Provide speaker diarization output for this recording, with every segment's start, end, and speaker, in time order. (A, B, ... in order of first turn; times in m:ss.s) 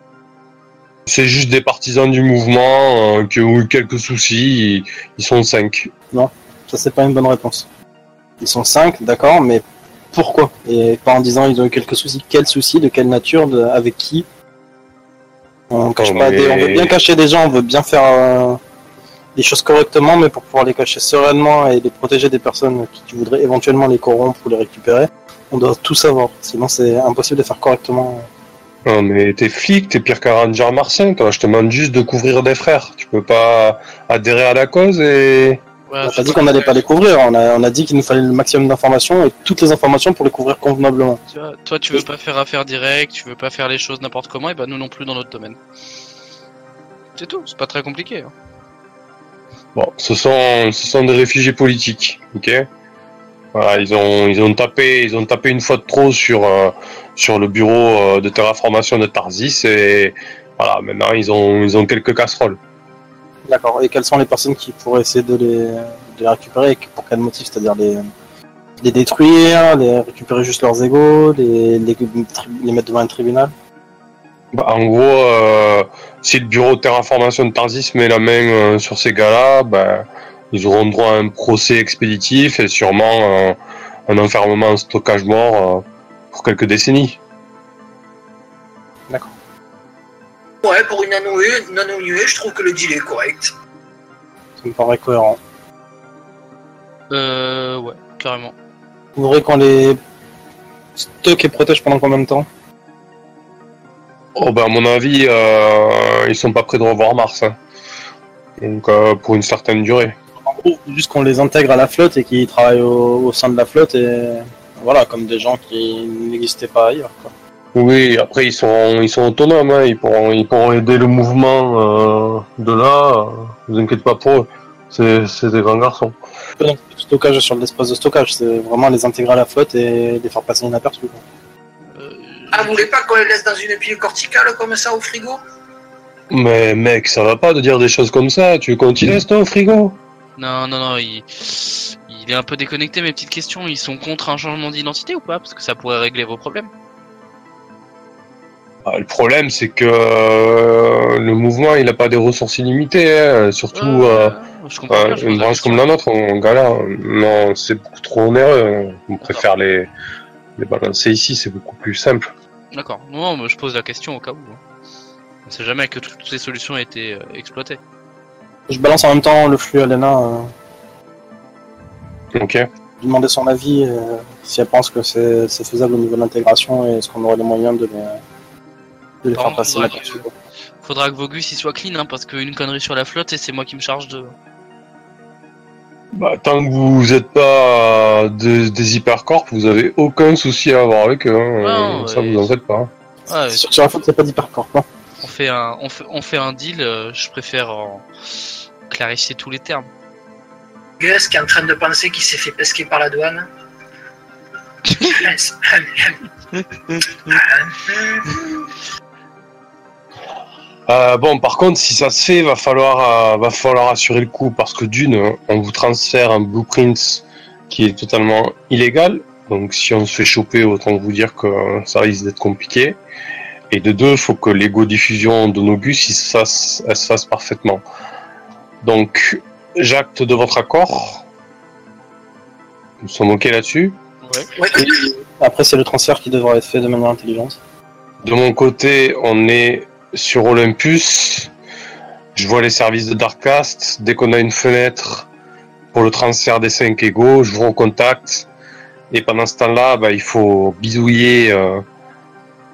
0:01.1-0:05.9 A
0:06.1-0:07.7 B
0:08.4-0:14.2 B
0:15.7-0:18.6 B
0:16.0-0:16.9 A
0:19.4-0:28.3 B
0:28.8-0:35.6 A
0:35.9-0:36.8 C
0:36.0-0:41.2 B
0:41.3-0:45.6 C
0:47.2-0:48.3 C
0:49.7-0:52.6 A
0:53.5-1:02.6 A
1:03.5-1:08.0 B
1:08.8-1:13.5 B
1:14.5-1:27.2 A
1:30.6-1:33.5 D
1:34.6-1:35.4 B
1:37.1-1:38.5 C
1:39.2-1:40.0 B
1:41.0-1:42.5 B
1:44.4-1:47.6 A
1:48.6-1:50.2 A
1:50.5-1:57.3 B
1:57.7-2:06.2 A
2:06.6-2:11.2 B
2:11.9-2:12.9 C
2:12.5-2:15.4 D
2:16.3-2:20.0 A
2:20.4-2:26.7 C
2:28.8-2:34.3 A
2:33.7-2:35.8 C
2:34.9-2:39.9 A
2:40.6-2:42.3 A
2:42.7-2:44.6 C
2:45.4-2:47.8 C
2:48.7-2:50.5 B
2:52.3-2:52.6 A
2:53.0-2:58.2 B
2:59.2-3:00.3 B
2:59.4-3:00.2 C
3:00.8-3:04.3 C
3:06.1-3:12.9 A
3:11.6-3:12.5 C
3:13.3-3:13.6 C
3:13.5-3:14.8 B
3:15.2-3:18.0 C
3:18.9-3:19.9 C
3:21.0-3:23.5 D
3:25.0-3:26.2 D
3:27.3-3:28.4 D
3:30.9-3:43.0 A
3:43.7-3:47.8 A
3:48.8-3:51.2 A
3:53.0-3:54.0 A
3:54.2-3:54.5 C
3:54.6-3:54.8 D
3:54.7-3:57.6 B
3:58.2-4:01.5 A
4:02.3-4:05.3 A
4:05.9-4:08.5 A
4:09.1-4:11.8 A